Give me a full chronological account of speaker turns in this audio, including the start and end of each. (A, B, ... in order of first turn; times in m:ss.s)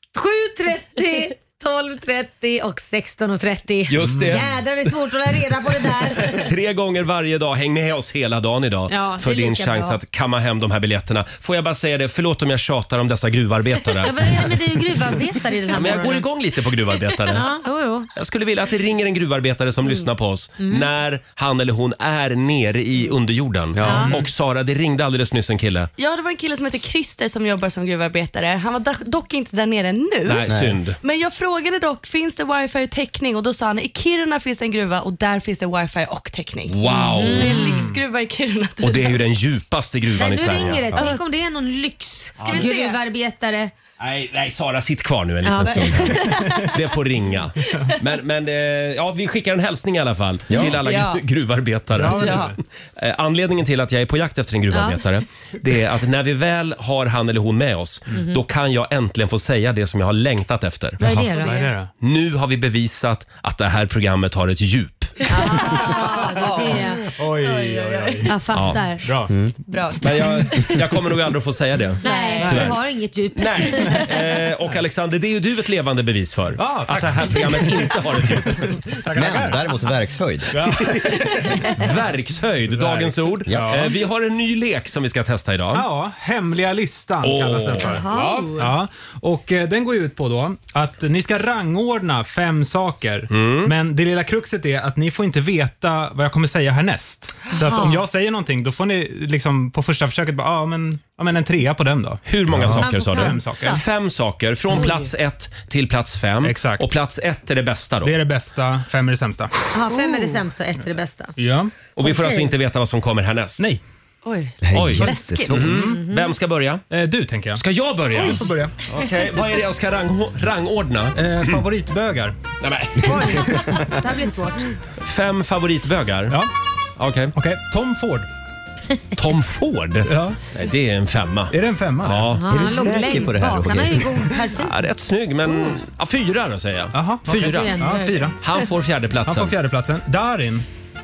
0:00.2-0:06.5 A
0:03.9-0:04.5 B
0:04.1-0:04.4 C
0:06.2-0:14.2 B
0:08.9-0:10.0 A
0:14.0-0:16.3 A
0:15.7-0:17.5 B
0:17.3-0:18.1 A
0:18.2-0:25.9 B
0:20.6-0:20.9 A
0:23.8-0:24.1 D
0:23.8-0:24.2 A
0:26.0-0:39.2 E
0:30.2-0:31.0 B
0:30.5-0:30.8 D
0:36.7-0:37.7 B
0:37.2-0:37.8 A
0:37.6-0:38.0 C
0:38.8-0:41.1 B
0:40.2-0:43.7 A
0:42.4-0:43.0 E
0:44.0-1:01.0 B
0:45.5-0:46.0 A
0:45.6-0:46.8 E
0:50.5-0:50.8 D
0:50.8-0:51.2 E
0:51.9-0:52.6 C
0:52.1-0:52.5 E
1:01.0-1:01.7 A
1:01.4-1:01.9 C
1:02.0-1:05.2 B
1:05.3-1:07.1 A
1:05.3-1:08.3 E
1:07.1-1:08.3 C
1:08.3-1:09.1 A
1:08.5-1:08.8 B
1:09.0-1:09.3 C
1:09.7-1:10.6 E
1:10.0-1:12.8 B
1:12.0-1:14.1 A
1:12.0-1:12.6 E
1:12.4-1:12.8 C
1:13.4-1:18.8 B
1:16.6-1:19.6 C
1:19.1-1:20.6 D
1:20.5-1:22.0 C
1:20.7-1:25.9 B
1:22.7-1:24.0 C
1:23.5-1:23.8 D
1:25.7-1:43.8 C
1:27.2-1:28.3 B
1:27.8-1:28.5 A
1:33.3-1:33.7 B
1:37.5-1:38.0 A
1:42.3-1:48.2 B
1:42.8-1:43.8 A
1:46.4-1:46.9 C
1:48.0-1:49.5 C
1:49.7-1:51.4 A
1:51.4-1:51.8 C
1:52.0-1:53.6 B
1:52.0-1:52.4 A
1:54.2-1:55.6 E
1:54.6-1:55.8 D
1:54.7-1:56.8 B
1:55.6-1:56.0 C
1:56.0-1:56.3 A
1:56.9-1:58.8 C
1:57.6-2:01.6 B
2:01.2-2:02.4 C
2:02.6-2:03.5 B
2:03.0-2:04.7 A
2:05.0-2:06.4 B
2:07.0-2:07.3 B
2:07.4-2:08.3 C
2:09.2-2:12.5 B
2:10.0-2:10.4 C
2:11.5-2:12.4 C
2:12.4-2:14.8 A
2:12.5-2:14.3 D
2:14.6-2:19.6 B
2:16.9-2:18.4 C
2:17.3-2:18.1 A
2:19.3-2:20.7 C